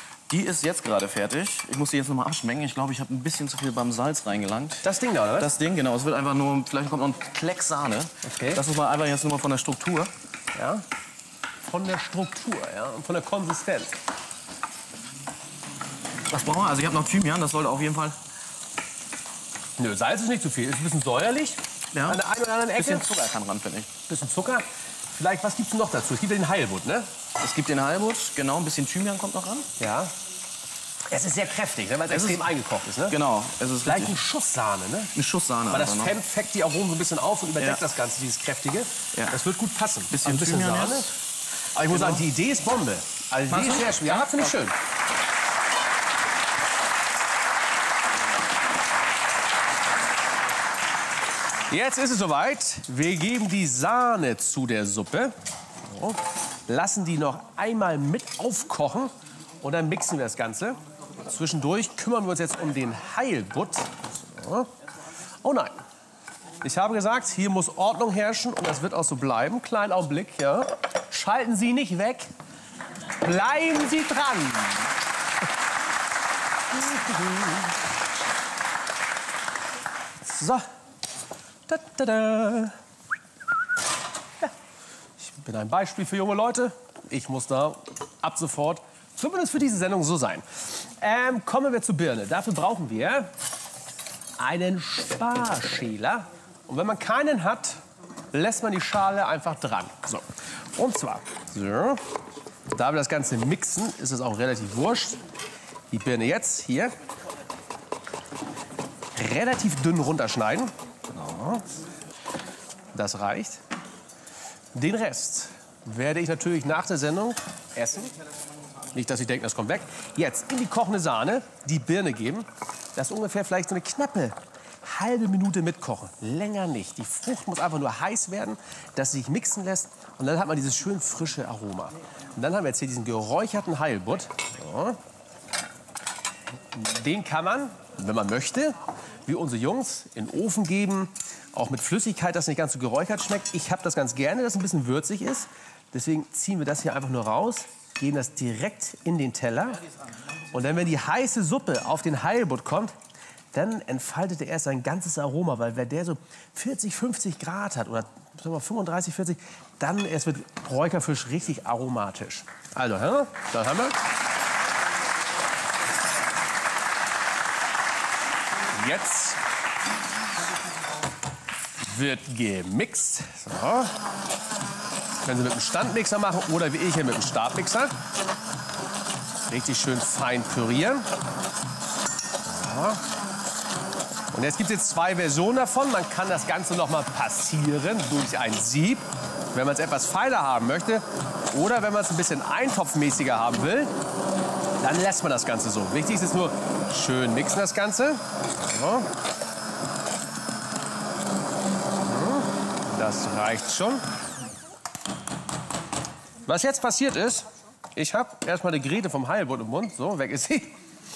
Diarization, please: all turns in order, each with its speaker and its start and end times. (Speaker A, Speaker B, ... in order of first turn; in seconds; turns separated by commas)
Speaker A: 0.3-10.1, Speaker B: 4.8-5.5, Speaker B: 8.2-8.6, Speaker B: 10.6-10.8, Speaker B: 11.7-14.0, Speaker A: 16.3-18.2, Speaker B: 19.8-23.1, Speaker A: 21.9-22.2, Speaker A: 22.7-23.9, Speaker B: 24.1-27.1, Speaker A: 27.4-29.7, Speaker B: 29.8-30.1, Speaker B: 31.1-33.2, Speaker A: 32.1-32.4, Speaker A: 33.1-34.2, Speaker B: 33.8-35.1, Speaker A: 35.1-36.1, Speaker B: 35.7-41.1, Speaker A: 40.1-41.2, Speaker B: 41.8-44.8, Speaker A: 41.9-42.2, Speaker A: 43.5-44.6, Speaker B: 51.7-64.7, Speaker B: 65.4-65.8, Speaker B: 66.6-72.3, Speaker B: 73.2-74.9, Speaker B: 76.7-77.6, Speaker B: 80.2-80.7, Speaker B: 81.7-82.8, Speaker B: 85.2-93.3, Speaker B: 94.4-97.8, Speaker B: 98.3-102.0, Speaker B: 102.7-105.2, Speaker B: 105.9-107.0, Speaker B: 109.2-111.7, Speaker B: 112.9-113.6, Speaker B: 114.7-118.1, Speaker B: 118.9-135.0, Speaker B: 136.7-149.8, Speaker B: 150.5-152.9, Speaker B: 153.5-164.0, Speaker B: 168.7-169.4, Speaker B: 171.8-173.9, Speaker B: 175.2-177.9, Speaker B: 179.5-181.1, Speaker B: 182.5-183.0, Speaker B: 184.3-193.9, Speaker B: 194.8-199.1, Speaker B: 202.1-204.0, Speaker B: 206.5-210.8